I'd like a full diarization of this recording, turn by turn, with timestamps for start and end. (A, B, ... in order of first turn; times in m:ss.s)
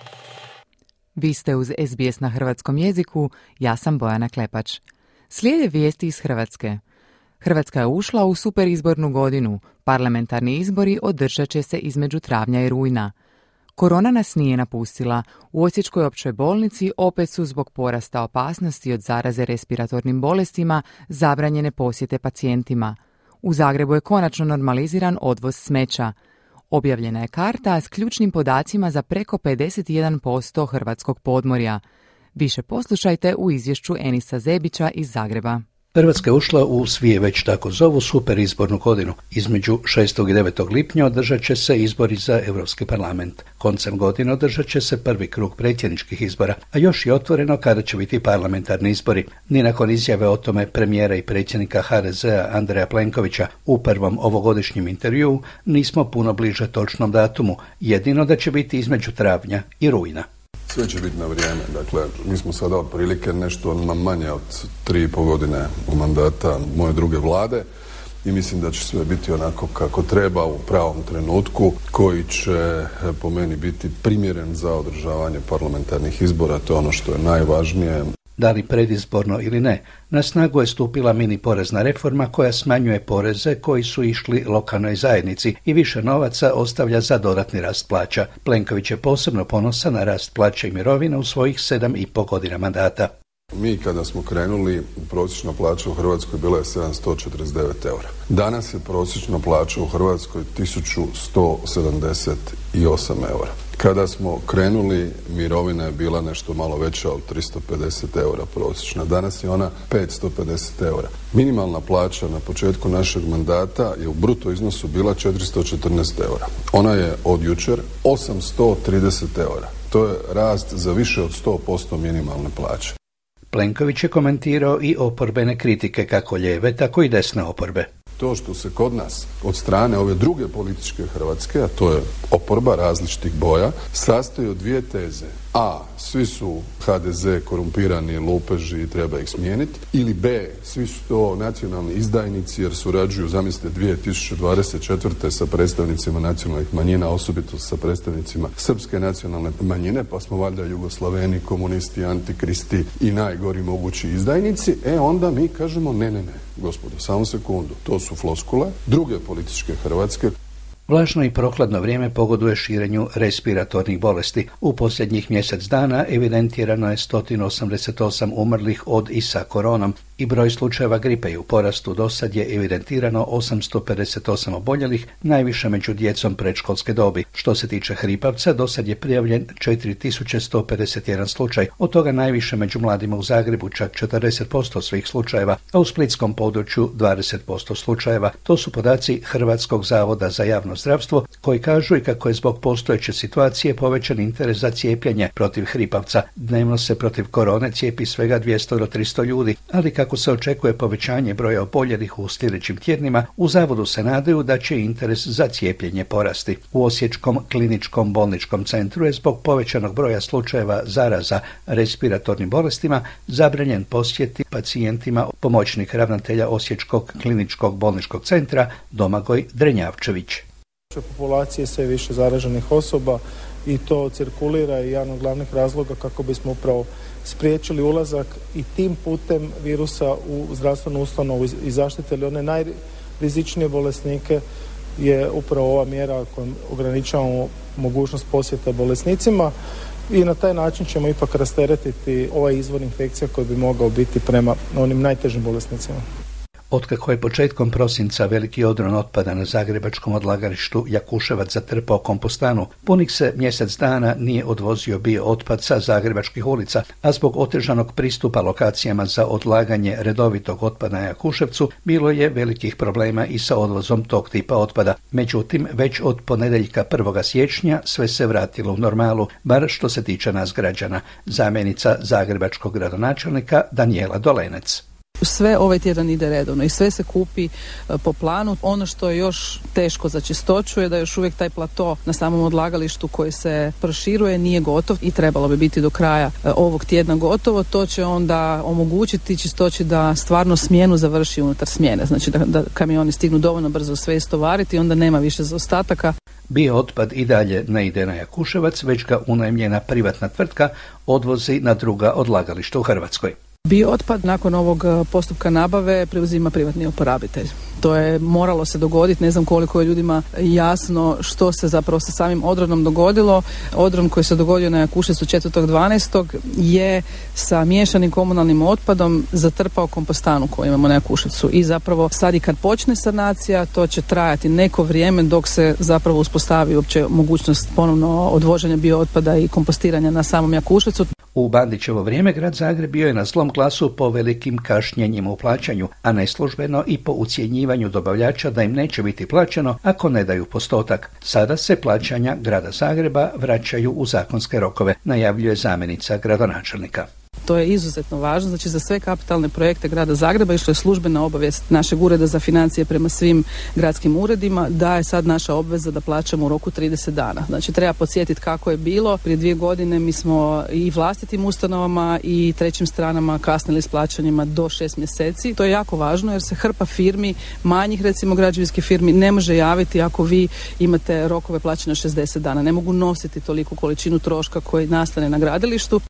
0:01.2-0:06.8 A
0:07.4-0:13.1 A
0:13.8-0:26.1 A
0:26.7-0:31.8 A
0:32.3-0:35.6 A
0:35.9-1:00.2 B
1:00.7-1:07.6 C
1:08.2-1:18.0 C
1:18.4-1:33.1 B
1:33.5-2:02.9 C
2:03.5-2:07.9 B
2:08.2-2:40.3 C
2:40.9-3:40.4 B
3:40.9-3:54.4 D
3:55.0-3:59.5 D
4:00.1-4:06.0 D
4:06.7-4:34.8 B
4:35.2-4:56.1 E
4:56.5-5:03.3 B
5:03.7-5:31.1 E
5:31.3-5:47.1 B
5:47.4-6:16.0 E